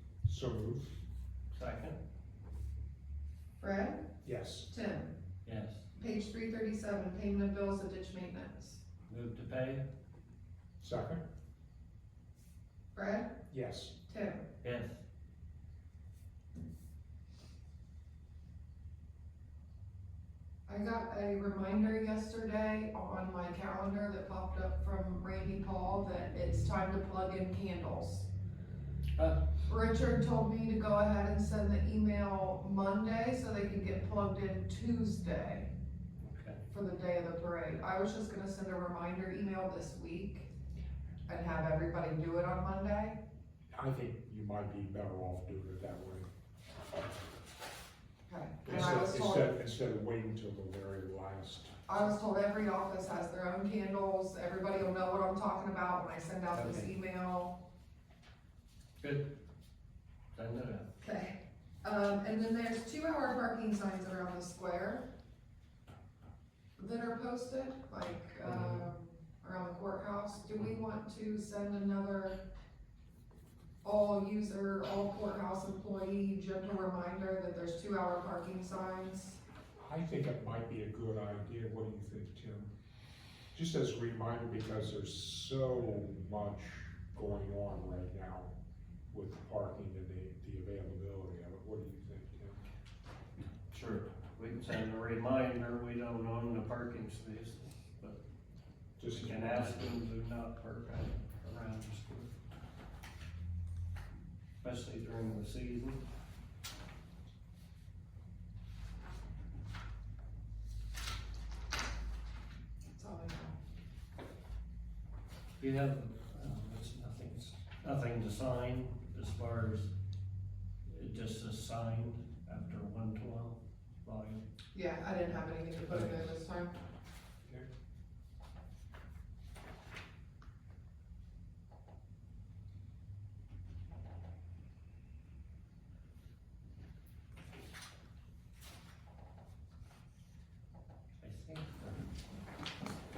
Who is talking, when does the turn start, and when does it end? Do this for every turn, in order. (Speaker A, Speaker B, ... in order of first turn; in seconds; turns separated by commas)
Speaker A: 0.2-0.9, Speaker B: 1.5-2.0, Speaker C: 3.6-4.0, Speaker A: 4.2-4.7, Speaker C: 4.7-5.1, Speaker B: 5.5-5.8, Speaker C: 6.0-8.8, Speaker B: 9.1-9.8, Speaker A: 10.8-11.2, Speaker C: 12.9-13.3, Speaker A: 13.5-14.0, Speaker C: 14.1-14.4, Speaker B: 14.6-15.0, Speaker C: 20.7-28.3, Speaker C: 29.7-35.7, Speaker B: 36.2-36.6, Speaker C: 36.7-40.5, Speaker C: 41.3-43.2, Speaker A: 43.7-46.3, Speaker C: 48.3-49.5, Speaker A: 48.6-51.7, Speaker C: 51.9-57.6, Speaker B: 56.5-56.9, Speaker B: 59.0-59.3, Speaker B: 60.3-60.9, Speaker C: 61.0-65.1, Speaker C: 66.8-72.4, Speaker B: 68.4-68.9, Speaker C: 73.8-79.4, Speaker A: 79.8-82.7, Speaker A: 83.5-88.5, Speaker A: 89.1-92.6, Speaker B: 93.7-98.2, Speaker A: 99.0-99.9, Speaker B: 99.1-102.3, Speaker B: 104.6-106.0, Speaker C: 112.9-113.6, Speaker B: 115.6-119.9, Speaker B: 120.9-124.4, Speaker C: 124.7-126.8, Speaker B: 125.8-126.3, Speaker B: 141.2-142.0